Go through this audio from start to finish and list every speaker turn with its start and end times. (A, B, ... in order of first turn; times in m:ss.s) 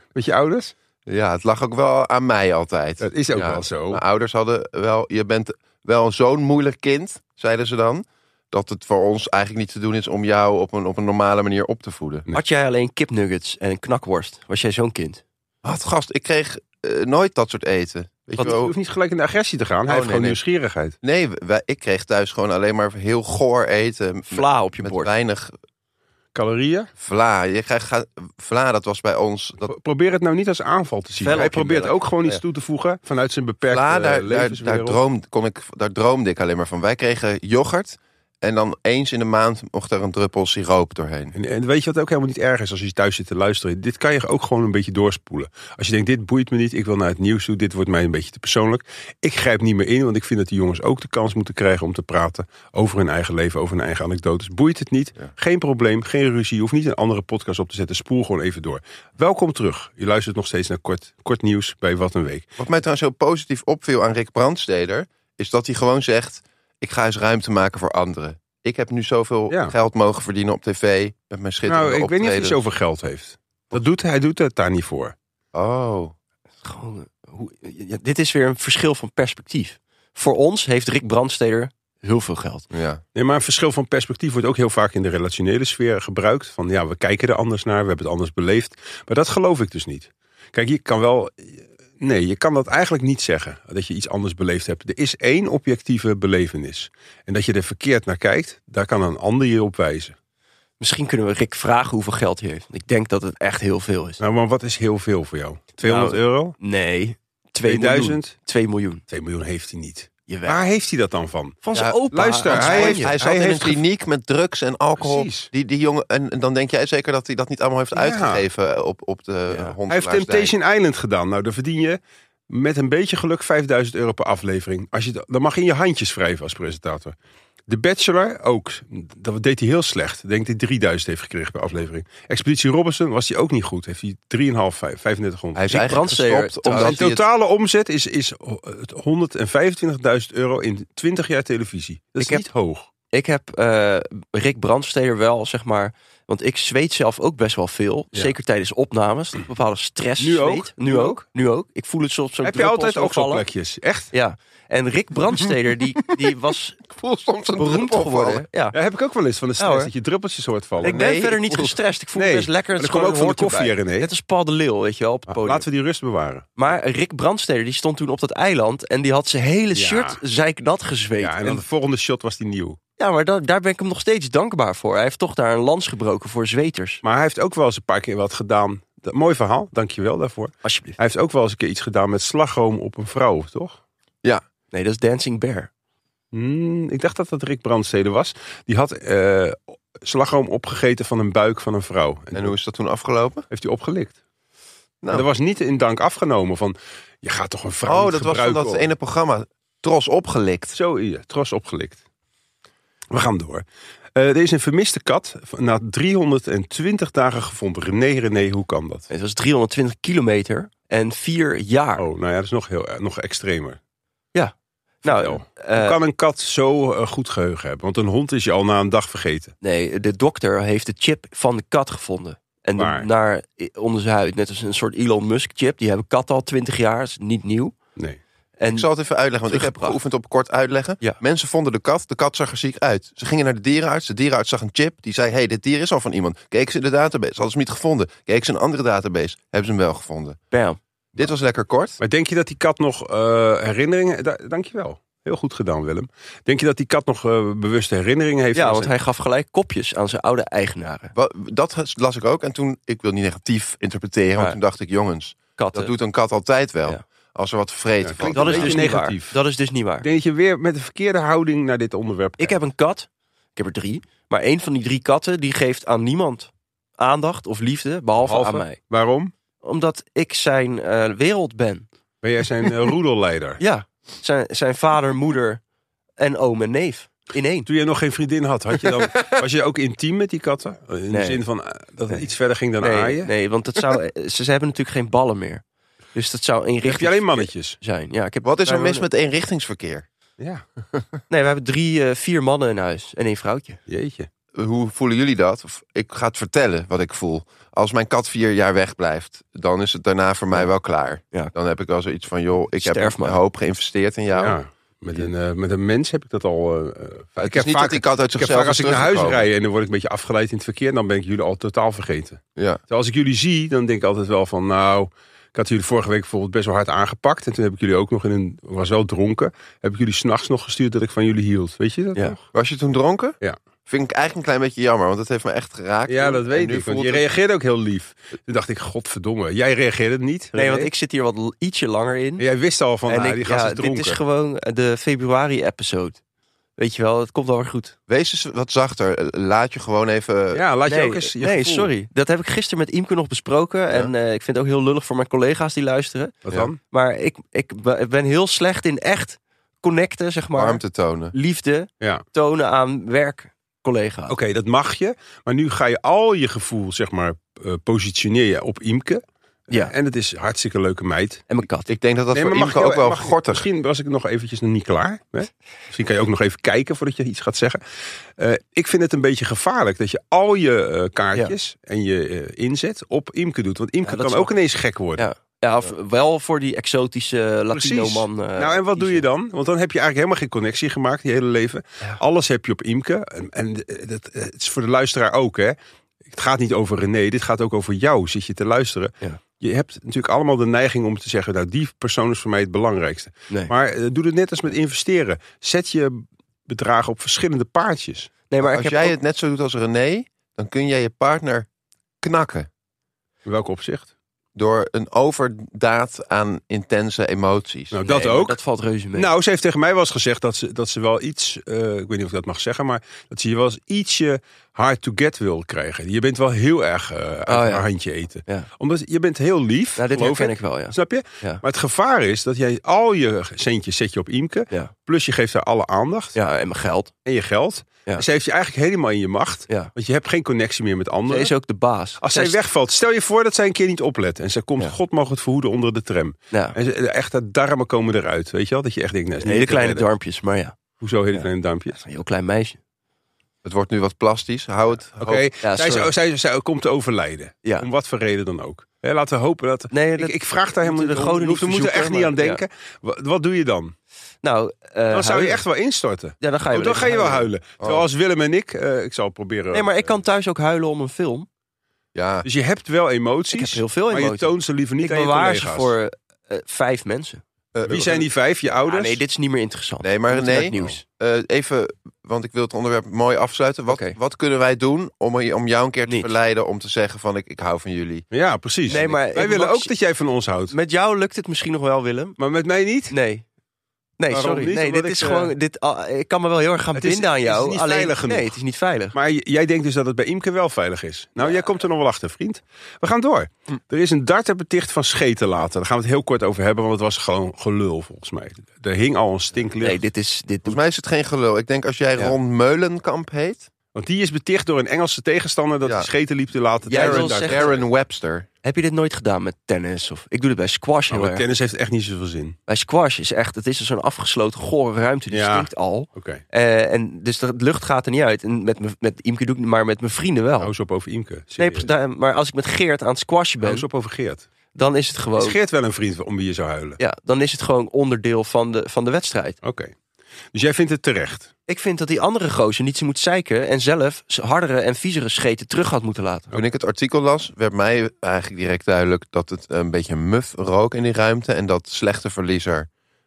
0:00.1-0:00.7 A
0:01.1-0:12.3 B
0:03.0-0:04.0 A
0:12.3-0:15.2 C
0:15.6-0:18.7 B
0:18.4-0:20.9 A
0:19.9-0:20.4 B
0:21.0-0:25.5 B
0:24.3-0:25.1 C
0:26.3-0:26.9 A
0:27.0-0:29.7 B
0:29.7-0:35.0 A
0:31.2-0:32.4 C
0:33.7-0:41.4 B
0:41.4-1:02.4 A
1:02.6-1:12.6 B
1:11.7-1:15.1 A
1:15.5-1:16.1 B
1:16.6-1:22.7 C
1:22.7-1:23.0 B
1:23.1-1:40.1 A
1:40.8-1:44.2 C
1:44.2-1:46.6 A
1:45.8-1:49.0 C
1:47.6-1:48.3 A
1:49.1-1:53.8 A
1:50.3-1:50.6 C
1:51.6-1:53.1 C
1:51.7-2:00.5 B
1:55.0-1:55.5 A
1:58.0-1:58.4 A
1:59.5-1:59.8 C
1:59.9-2:07.1 A
2:07.7-2:15.8 A
2:15.5-2:17.2 B
2:15.7-2:17.0 C
2:16.7-2:22.9 A
2:22.2-2:22.5 C
2:23.1-2:33.4 C
2:30.2-2:31.2 A
2:32.4-2:34.1 A
2:34.1-2:36.8 C
2:36.2-2:38.5 B
2:37.6-2:38.8 C
2:38.7-2:41.0 A
2:39.6-2:39.9 C
2:40.8-2:41.8 B
2:40.8-2:45.6 C
2:42.2-2:44.1 A
2:45.3-2:46.5 A
2:46.6-2:51.6 C
2:49.8-2:50.2 A
2:51.2-2:52.8 A
2:53.0-2:57.0 C
2:57.0-3:03.8 A
3:00.6-3:01.0 C
3:04.7-3:05.7 C
3:06.3-3:12.5 A
3:12.3-3:13.5 B
3:13.5-3:14.1 A
3:15.0-3:15.3 B
3:15.1-3:18.9 A
3:17.9-3:20.8 B
3:20.7-3:22.0 A
3:23.1-3:23.6 A
3:24.1-3:29.1 A
3:29.1-3:32.0 C
3:32.0-3:33.8 A
3:34.3-3:36.0 C
3:35.0-3:39.5 A
3:39.6-3:47.8 C
3:42.8-3:43.1 A
3:48.6-3:48.9 C
3:48.7-4:00.4 B
3:49.5-3:50.0 C
4:00.5-4:00.8 C
4:01.1-4:02.0 B
4:02.0-4:08.9 A
4:08.5-4:11.1 C
4:11.1-4:18.9 B
4:15.6-4:15.9 C
4:18.0-4:19.4 A
4:18.3-4:20.1 C
4:20.0-4:22.6 A
4:22.4-4:28.8 C
4:28.2-4:29.3 A
4:29.6-4:31.9 C
4:32.2-4:33.6 A
4:33.6-4:35.6 C
4:36.2-4:37.7 C
4:37.6-4:43.3 A
4:39.0-4:39.2 B
4:41.1-4:41.4 C
4:42.8-4:45.6 C
4:46.1-4:49.0 C
4:46.8-4:47.8 A
4:48.4-4:50.1 B
4:51.3-4:53.8 C
4:53.9-4:54.3 A
4:54.5-5:04.6 B
5:02.8-5:03.4 C
5:04.4-5:22.4 A
5:07.4-5:09.5 B
5:12.6-5:12.8 B
5:22.5-5:27.2 B
5:26.1-5:30.9 A
5:30.5-5:32.4 C
5:32.4-5:34.2 A
5:33.1-5:36.2 C
5:36.8-5:38.0 C
5:38.1-5:40.6 B
5:40.5-5:41.9 A
5:40.9-5:46.4 C
5:46.5-5:46.8 A
5:46.9-5:54.4 C
5:50.5-5:51.3 B
5:54.3-6:01.5 A
6:01.5-6:01.9 C
6:01.9-6:03.7 B
6:02.3-6:07.8 A
6:08.4-6:15.2 A
6:14.0-6:14.5 C
6:15.2-6:19.2 C
6:17.7-6:25.8 A
6:26.3-6:38.3 A
6:38.5-6:39.2 C
6:38.6-6:41.7 B
6:42.2-6:42.7 B
6:43.5-6:44.1 A
6:44.5-6:48.0 B
6:47.9-6:48.6 A
6:48.0-6:49.3 C
6:49.1-7:06.4 A
6:57.5-6:57.9 C
7:00.0-7:01.6 C
7:06.4-7:07.1 C
7:07.2-7:11.5 A
7:11.3-7:12.6 C
7:12.2-7:20.1 A
7:19.4-7:20.8 C
7:21.0-7:22.0 A
7:21.3-7:22.8 C
7:23.6-7:25.5 B
7:25.2-7:33.9 A
7:25.6-7:26.1 C
7:29.9-7:32.6 C
7:34.4-7:35.6 C
7:35.1-7:40.1 A
7:36.4-7:37.5 C
7:37.8-7:38.1 B
7:39.7-7:41.5 C
7:42.1-7:42.5 B
7:42.4-7:45.9 A
7:43.5-7:47.4 C
7:47.7-7:48.2 B
7:47.8-7:49.2 A
7:48.9-7:51.0 C
7:50.0-7:58.2 B
7:53.9-7:54.2 C
7:58.3-8:00.8 A
7:58.9-7:59.9 C
8:00.7-8:02.4 C
8:02.4-8:03.1 A
8:03.1-8:03.4 C
8:04.2-8:09.2 C
8:04.3-8:05.5 A
8:07.0-8:08.6 A
8:09.1-8:20.0 A
8:19.8-8:20.8 C
8:20.6-8:23.7 B
8:24.0-8:27.8 A
8:25.8-8:26.1 B
8:26.9-8:27.8 C
8:26.9-8:28.5 B
8:28.6-8:31.5 C
8:31.1-8:32.6 A
8:32.7-8:40.7 C
8:35.3-8:36.4 A
8:40.6-8:41.9 A
8:41.6-8:43.9 C
8:43.6-8:44.5 A
8:44.8-8:45.6 C
8:45.4-8:47.0 A
8:47.0-8:49.6 C
8:49.6-8:49.9 A
8:50.5-8:51.5 A
8:51.7-8:56.5 C
8:56.5-9:02.9 B